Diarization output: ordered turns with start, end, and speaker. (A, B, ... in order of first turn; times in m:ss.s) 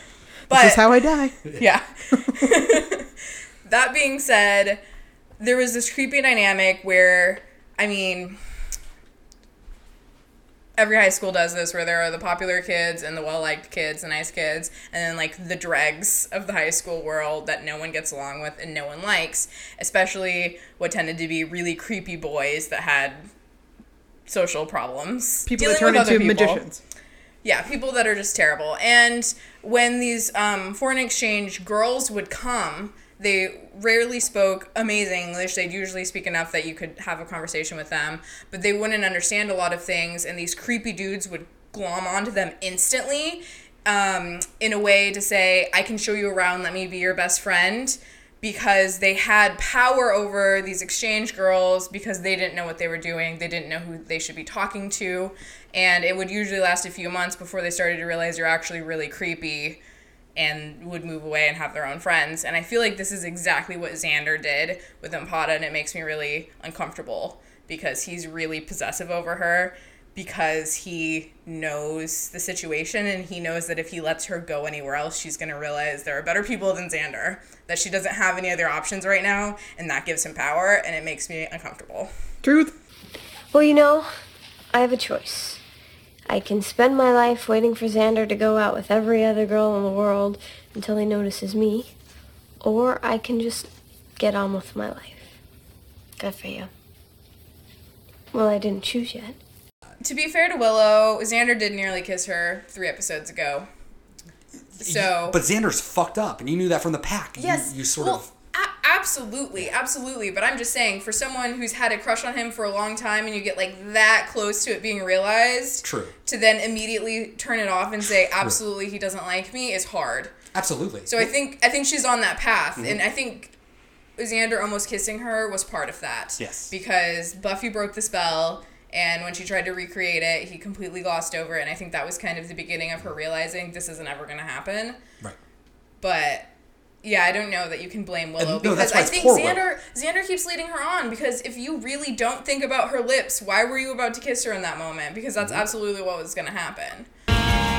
0:00.5-0:00.8 A
0:00.5-0:01.4 B
0:01.5-0:03.1 A
0:03.6-0:04.8 A
0:05.4-0:08.4 A
0:10.8-0:23.3 A
0:24.3-0:26.6 A
0:25.4-0:26.8 B
0:27.4-0:59.8 A
1:00.4-1:22.1 A
1:22.4-1:22.7 B
1:23.5-1:24.1 C
1:24.7-1:25.6 C
1:26.3-1:31.9 C
1:32.6-1:35.3 C
1:36.2-1:36.7 C
1:38.3-1:39.4 C
1:40.0-1:43.7 A
1:44.8-1:45.4 A
1:44.8-1:48.3 D
1:47.4-2:00.3 A
1:55.8-1:56.1 D
2:00.5-2:01.3 D
2:01.1-2:03.5 A
2:04.2-2:15.0 A
2:06.4-2:06.7 D
2:16.0-2:16.5 A
2:17.0-2:27.1 A
2:18.4-2:19.6 D